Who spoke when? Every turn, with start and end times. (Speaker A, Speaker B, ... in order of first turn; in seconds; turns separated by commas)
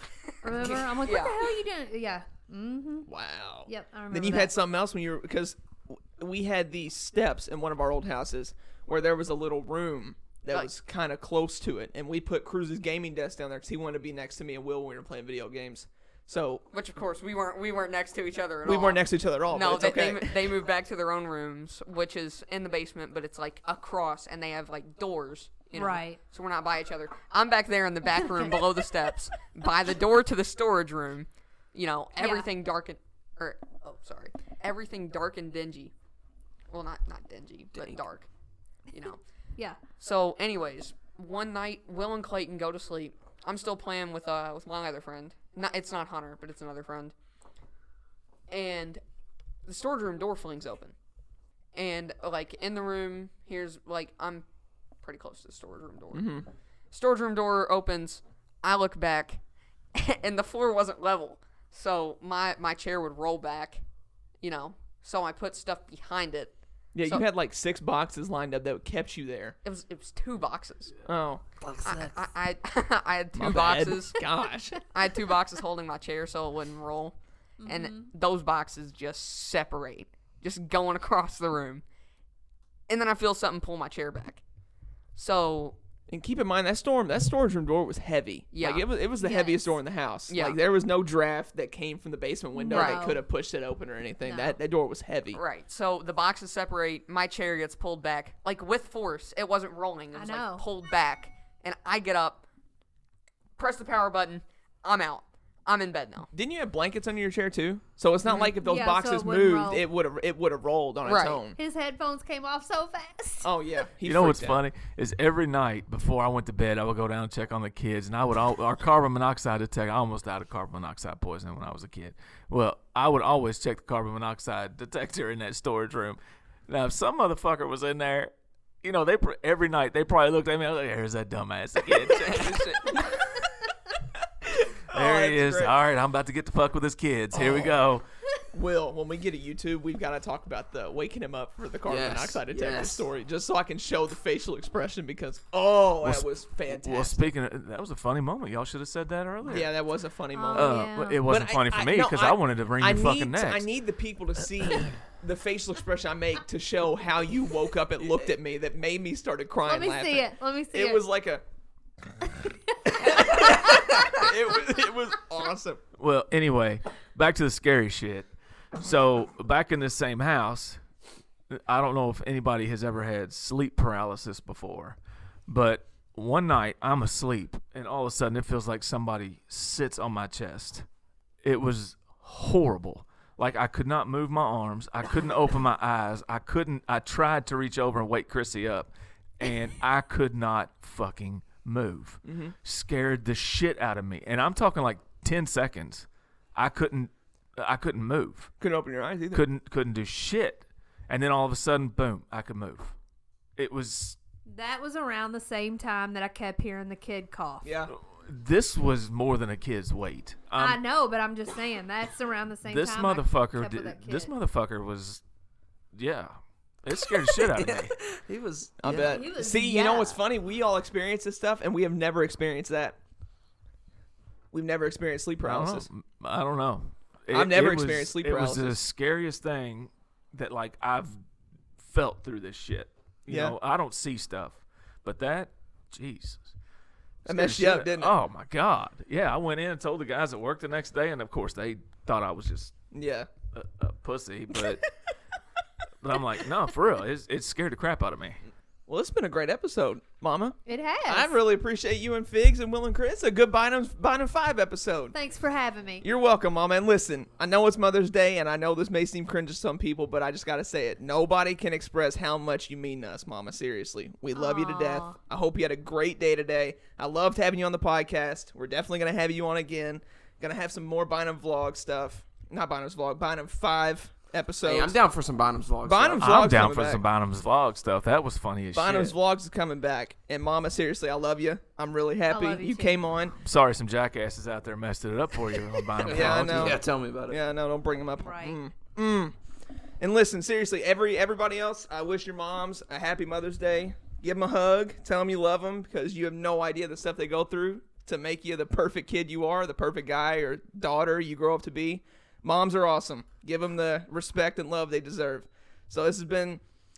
Speaker A: 0.4-3.1, Speaker B: 0.7-1.5, Speaker C: 3.1-16.6, Speaker A: 3.6-4.5, Speaker B: 16.7-35.9, Speaker C: 18.6-20.5, Speaker A: 25.7-26.2, Speaker A: 28.2-28.5, Speaker A: 32.2-32.5, Speaker B: 36.7-38.3, Speaker D: 37.7-38.0, Speaker B: 38.9-39.2, Speaker B: 40.0-47.1, Speaker B: 48.5-49.0, Speaker B: 49.6-50.9, Speaker B: 51.7-54.5, Speaker B: 55.0-56.3, Speaker C: 56.1-56.5, Speaker B: 56.9-59.4, Speaker B: 59.9-63.8, Speaker B: 64.4-67.2, Speaker C: 66.9-69.5, Speaker B: 69.6-70.9, Speaker C: 71.0-71.4, Speaker A: 71.6-72.2, Speaker B: 71.8-74.2, Speaker C: 73.4-74.8, Speaker B: 74.9-81.8, Speaker A: 77.6-78.1, Speaker B: 82.9-84.4, Speaker B: 85.1-85.8, Speaker C: 86.1-95.4, Speaker B: 88.5-88.8, Speaker A: 89.2-89.8, Speaker B: 90.3-90.6, Speaker A: 92.5-93.2, Speaker B: 92.7-93.1, Speaker A: 94.2-94.6, Speaker B: 95.3-102.4, Speaker A: 100.1-100.7, Speaker B: 103.6-106.3, Speaker C: 106.3-111.6, Speaker A: 108.5-109.8, Speaker B: 111.0-111.4, Speaker A: 111.5-113.5, Speaker C: 113.4-114.6, Speaker E: 114.0-133.4, Speaker E: 134.4-138.0, Speaker C: 134.9-135.7, Speaker C: 137.3-137.7, Speaker C: 138.5-147.3, Speaker D: 141.8-143.1, Speaker E: 146.0-149.7, Speaker C: 149.4-161.4, Speaker A: 150.3-151.2, Speaker E: 150.5-153.7, Speaker A: 159.6-161.0, Speaker C: 162.8-165.8, Speaker A: 162.9-163.5, Speaker E: 166.0-170.8, Speaker E: 171.5-180.8, Speaker E: 181.4-198.5, Speaker C: 192.2-192.5, Speaker C: 198.6-199.4, Speaker E: 199.3-202.9, Speaker E: 203.6-204.2, Speaker A: 204.5-207.7, Speaker C: 207.6-207.9, Speaker E: 207.9-210.8, Speaker A: 210.6-214.3, Speaker E: 212.7-215.2, Speaker E: 215.9-217.9, Speaker D: 217.1-219.2, Speaker C: 218.8-223.0, Speaker A: 218.9-220.2, Speaker C: 224.5-225.9, Speaker E: 225.4-231.2, Speaker C: 227.3-228.8, Speaker E: 231.8-236.5, Speaker C: 233.3-233.5, Speaker E: 237.2-242.7, Speaker C: 237.2-238.1, Speaker C: 242.9-243.3, Speaker E: 243.5-244.8, Speaker E: 246.0-248.4, Speaker C: 248.9-255.1, Speaker A: 250.7-251.4, Speaker A: 255.1-256.1, Speaker C: 256.0-275.0, Speaker A: 264.3-265.2, Speaker D: 274.6-276.4, Speaker C: 275.8-277.0, Speaker E: 276.2-279.1, Speaker C: 278.7-283.4, Speaker A: 282.3-283.0, Speaker E: 283.4-286.8, Speaker D: 286.0-287.4, Speaker C: 286.0-289.3, Speaker A: 288.2-288.6, Speaker C: 290.0-306.6